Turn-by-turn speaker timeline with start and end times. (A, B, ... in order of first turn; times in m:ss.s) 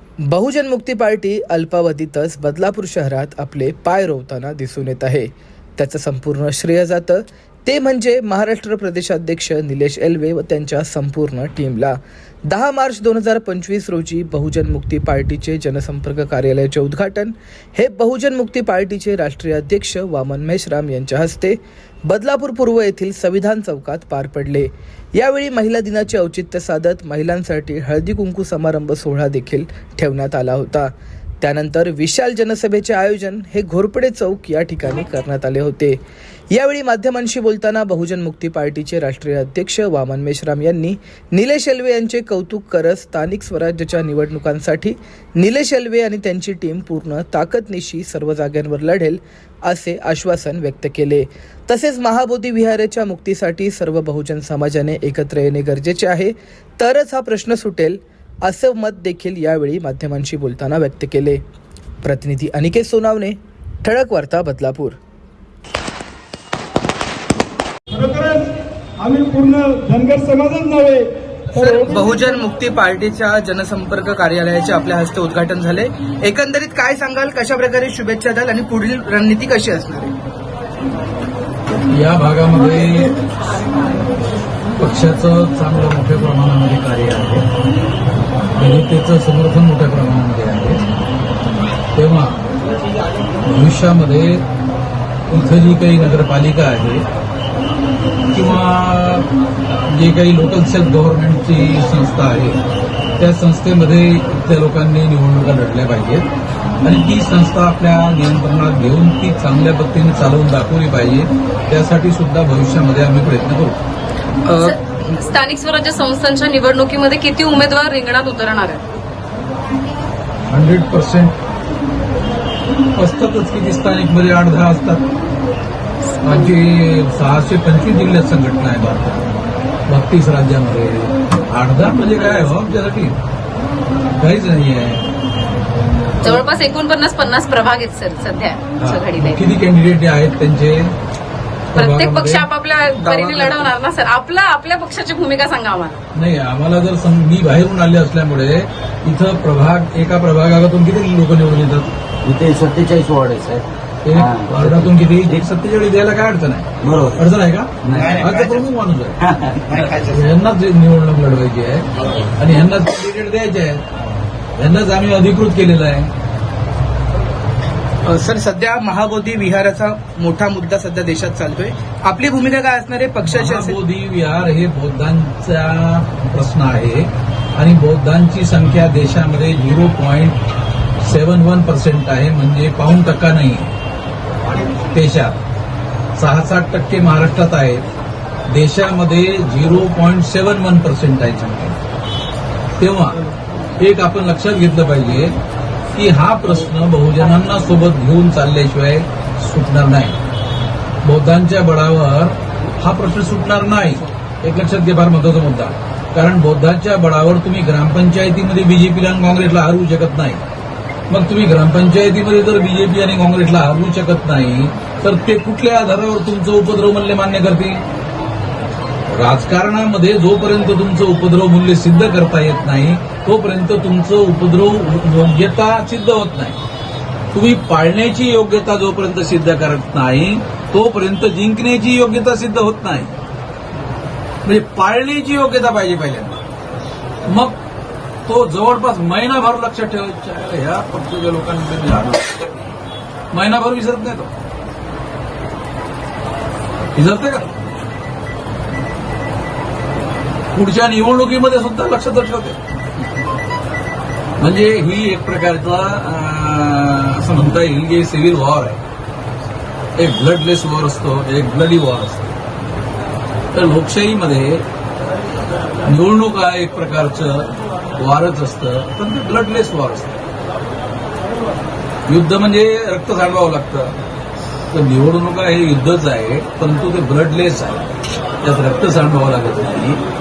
0:00.3-0:36.0 A
0:36.5-1:01.4 A
1:02.0-1:05.0 A
1:07.9-1:12.3 B
1:11.5-1:20.1 A
1:21.9-1:23.2 C
1:24.8-1:27.4 C
1:28.6-1:30.8 C
1:32.0-1:32.4 C
1:33.4-1:34.4 C
1:35.3-1:37.0 C
1:38.3-1:39.3 C
1:39.9-1:42.6 C
1:43.2-1:46.3 C
1:46.8-1:53.8 C
1:54.5-1:54.8 A
1:54.6-1:58.9 D
2:00.5-2:01.4 C
2:03.0-2:05.0 C
2:06.2-2:06.5 D
2:06.2-2:09.2 C
2:09.9-2:13.2 C
2:14.2-2:15.0 C
2:16.2-2:19.6 D
2:18.8-2:20.9 C
2:21.7-2:22.5 C
2:21.8-2:26.0 D
2:23.0-2:23.7 A
2:26.1-2:31.9 C
2:32.2-2:34.9 E
2:34.0-2:39.3 C
2:36.8-2:37.2 E
2:38.0-2:38.6 A
2:39.2-2:40.0 E
2:39.7-2:40.2 A
2:40.0-2:43.8 C
2:44.6-2:46.1 C
2:48.0-2:53.8 A
2:53.2-3:00.4 C
3:01.0-3:03.7 C
3:04.9-3:05.4 C
3:06.2-3:07.8 C
3:08.5-3:11.8 C
3:12.8-3:13.2 C
3:13.8-3:15.4 C
3:15.9-3:20.2 C
3:21.0-3:30.4 C
3:31.1-3:37.8 C
3:39.1-3:46.6 C
3:47.3-3:53.2 C
3:54.4-3:56.4 C
3:57.3-3:57.6 C
3:58.3-4:02.5 C
4:03.3-4:04.3 C
4:07.0-4:07.5 C
4:10.6-4:12.6 C
4:14.4-4:18.8 C
4:20.0-4:22.3 C
4:23.5-4:24.6 C
4:25.8-4:30.2 C
4:32.1-4:34.0 C
4:34.7-4:37.9 C
4:38.4-4:40.0 C